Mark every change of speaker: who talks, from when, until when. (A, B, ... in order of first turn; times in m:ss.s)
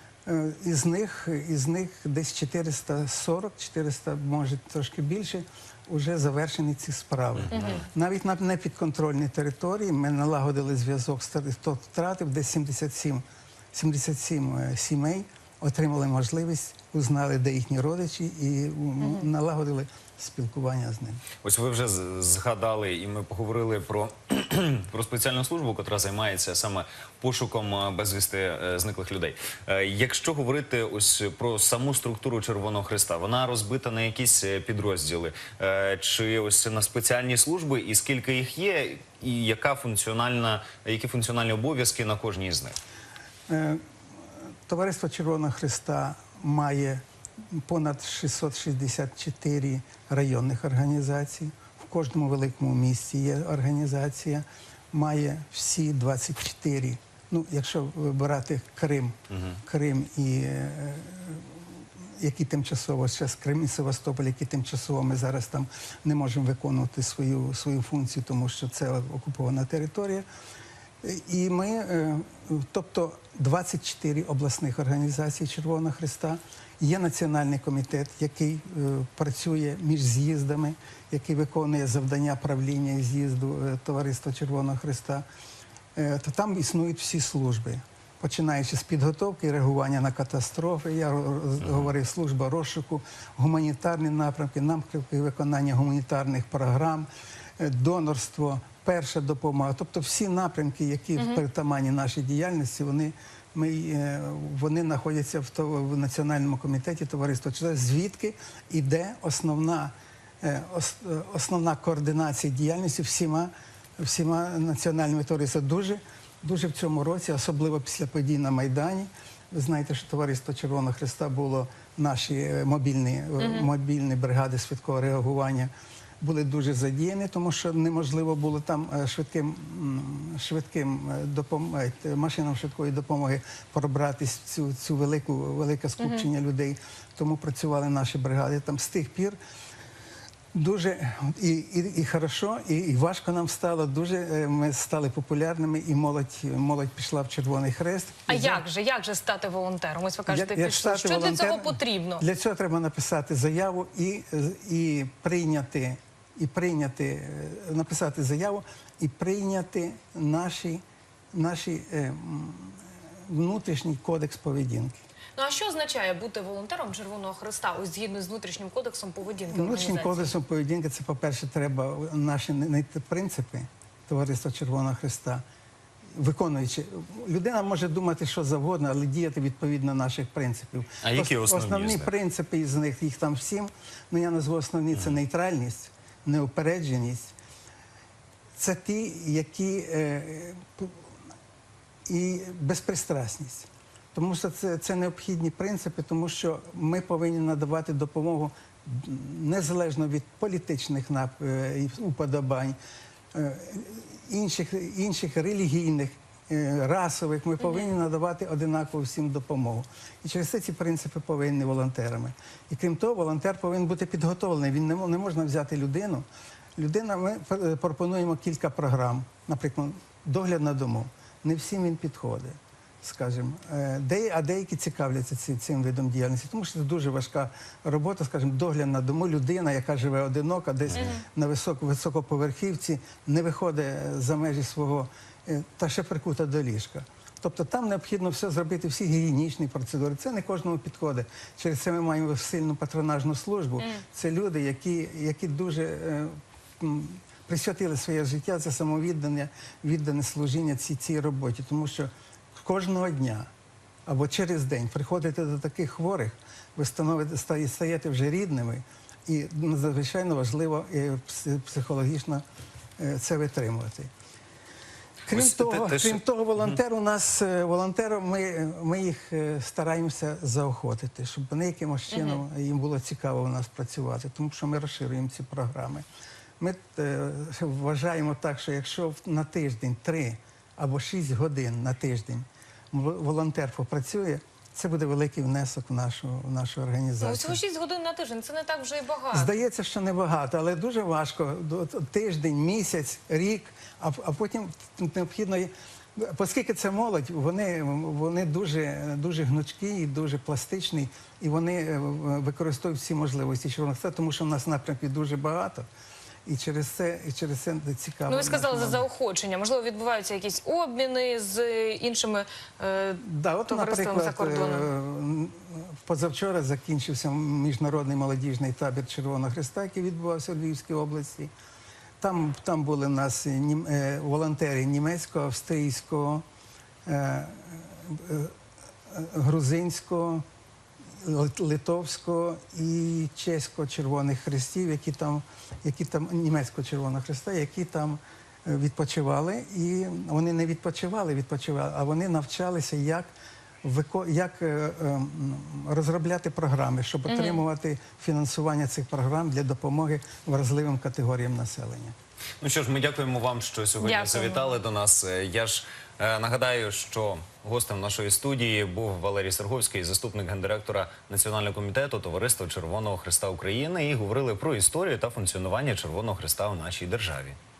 0:00.3-0:21.2 A
0:07.5-0:07.8 B
0:19.0-0:19.3 B
0:21.4-0:42.8 C
0:43.5-0:43.8 A
0:44.7-0:47.0 A
0:47.5-1:01.4 A
1:02.2-1:10.3 A
1:11.0-1:25.2 A
1:26.0-1:37.1 A
1:37.6-2:19.4 A
1:41.2-1:41.4 B
2:03.4-2:03.7 B
2:16.0-2:16.3 B
2:20.5-2:28.6 A
2:28.3-2:32.2 B
2:30.3-2:45.0 A
2:45.4-2:50.3 B
2:49.5-2:55.4 A
2:56.2-3:07.3 A
3:01.0-3:02.1 C
3:08.6-3:11.0 A
3:12.1-3:22.8 A
3:23.3-3:36.3 A
3:27.6-3:27.9 B
3:36.8-4:13.5 A
3:50.9-3:51.2 B
4:14.1-4:22.4 A
4:23.0-4:24.1 A
4:25.3-4:26.6 C
4:25.3-4:36.0 A
4:32.1-4:32.4 B
4:36.6-4:47.6 A
4:47.2-4:49.5 B
4:49.3-5:05.9 A
5:06.5-5:09.0 A
5:08.3-5:14.9 B
5:13.2-5:21.5 A
5:22.2-5:26.4 A
5:27.1-5:28.5 A
5:29.1-5:30.4 A
5:31.2-5:43.3 A
5:43.8-5:52.2 A
5:47.3-5:47.6 B
5:52.6-6:07.6 C
5:54.0-5:54.8 B